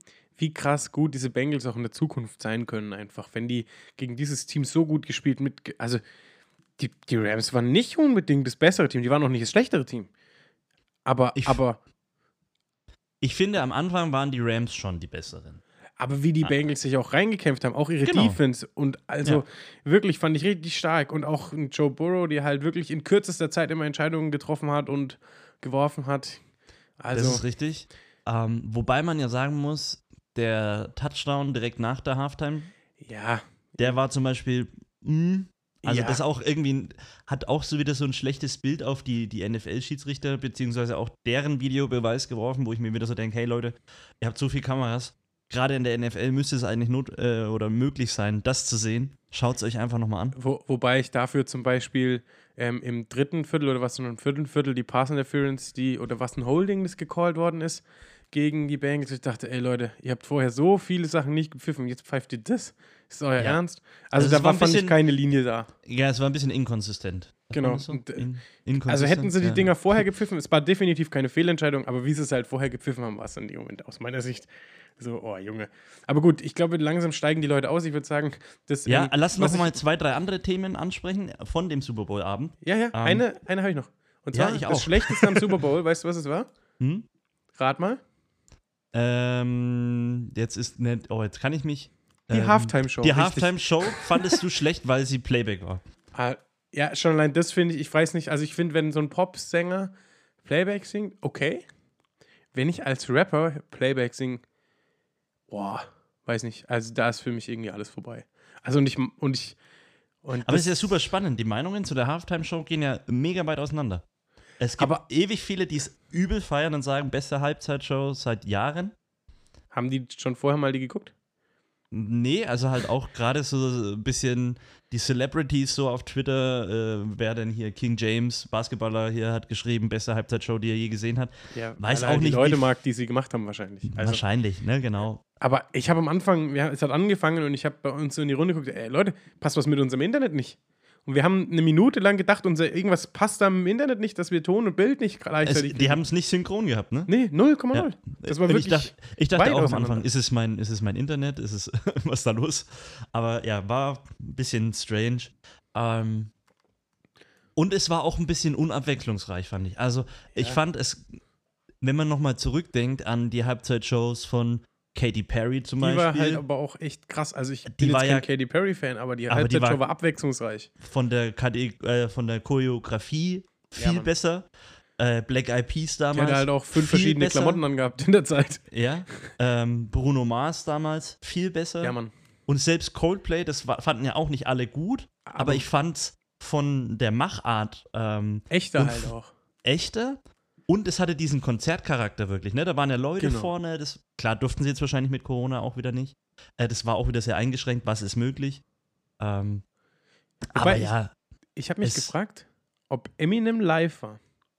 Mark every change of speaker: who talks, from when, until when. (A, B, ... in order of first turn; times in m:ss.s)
0:00.4-0:06.0 A
0:06.8-0:10.1 A
0:11.0-0:11.8 A
0:11.3-0:11.6 B
0:13.2-0:15.6 B
0:16.0-0:26.4 A
0:18.0-0:18.4 B
0:27.0-0:27.4 A
0:27.1-0:32.7 B
0:33.0-0:34.0 A
0:33.8-0:50.3 B
0:35.8-0:36.2 A
0:50.3-1:05.7 A
1:04.1-1:05.0 B
1:05.8-1:10.0 B
1:07.6-1:08.3 A
1:08.9-1:19.8 A
1:18.8-1:23.2 B
1:22.6-1:26.5 A
1:24.3-1:25.4 B
1:26.8-1:27.0 B
1:27.5-1:28.0 A
1:28.9-1:35.8 B
1:32.3-1:34.4 A
1:36.1-1:41.6 A
1:42.5-1:44.4 A
1:45.5-1:49.6 A
1:50.2-1:51.0 A
1:50.4-1:54.0 B
1:54.6-1:58.9 B
1:59.7-2:01.1 A
2:01.9-2:12.6 B
2:11.5-2:14.2 A
2:13.9-2:15.2 B
2:15.4-2:26.0 A
2:25.4-2:27.1 B
2:27.1-2:30.0 A
2:27.7-2:36.3 B
2:37.6-2:41.2 B
2:40.3-2:40.6 A
2:41.8-2:46.4 B
2:45.8-2:50.7 A
2:47.6-2:48.3 B
2:49.3-2:49.8 B
2:50.8-2:57.6 B
2:53.8-2:54.1 A
2:56.1-2:59.3 A
2:58.7-3:09.1 B
3:01.8-3:02.1 A
3:05.2-3:05.7 A
3:08.5-3:09.3 A
3:09.6-3:18.6 B
3:13.2-3:13.5 A
3:19.2-3:19.7 B
3:20.5-3:21.1 B
3:20.5-3:20.9 A
3:21.6-3:24.2 A
3:21.8-3:22.1 B